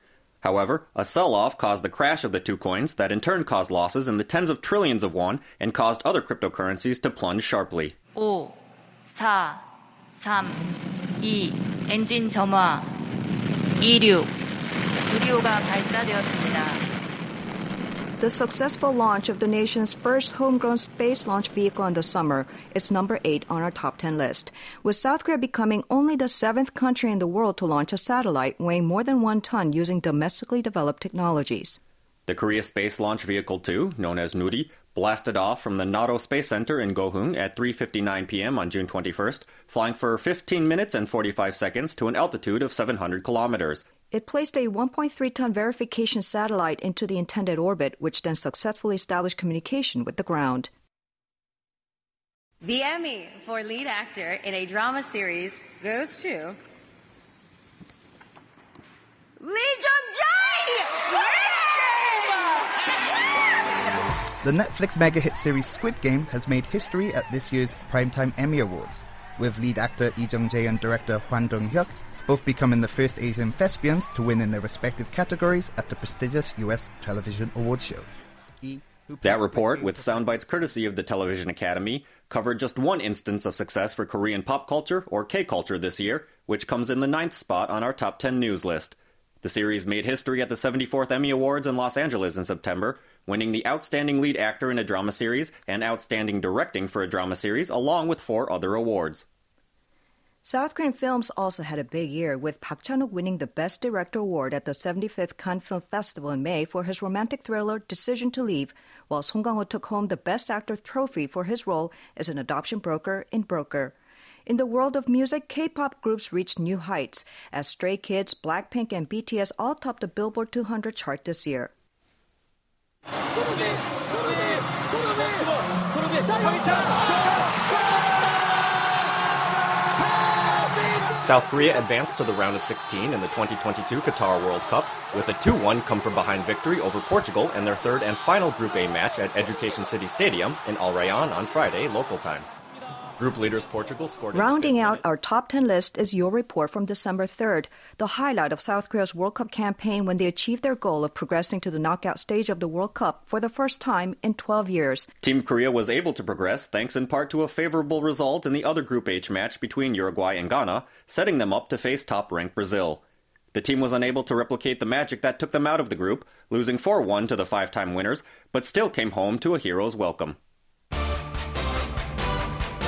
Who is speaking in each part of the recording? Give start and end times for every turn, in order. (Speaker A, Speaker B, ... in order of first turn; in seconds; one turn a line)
Speaker A: 0.4-8.0
Speaker B: 8.2-9.6
Speaker B: 10.2-10.7
Speaker B: 11.2-12.9
Speaker B: 13.8-14.3
Speaker B: 15.1-16.9
Speaker C: 18.2-31.8
Speaker A: 32.3-43.9
Speaker C: 44.1-50.7
Speaker D: 52.6-56.6
Speaker D: 59.4-62.7
Speaker E: 64.4-78.1
Speaker E: 78.6-80.6
Speaker A: 79.2-99.2
Speaker C: 100.4-121.7
Speaker A: 131.2-142.5
Speaker A: 143.2-145.0
Speaker C: 144.3-155.1
Speaker A: 155.2-170.4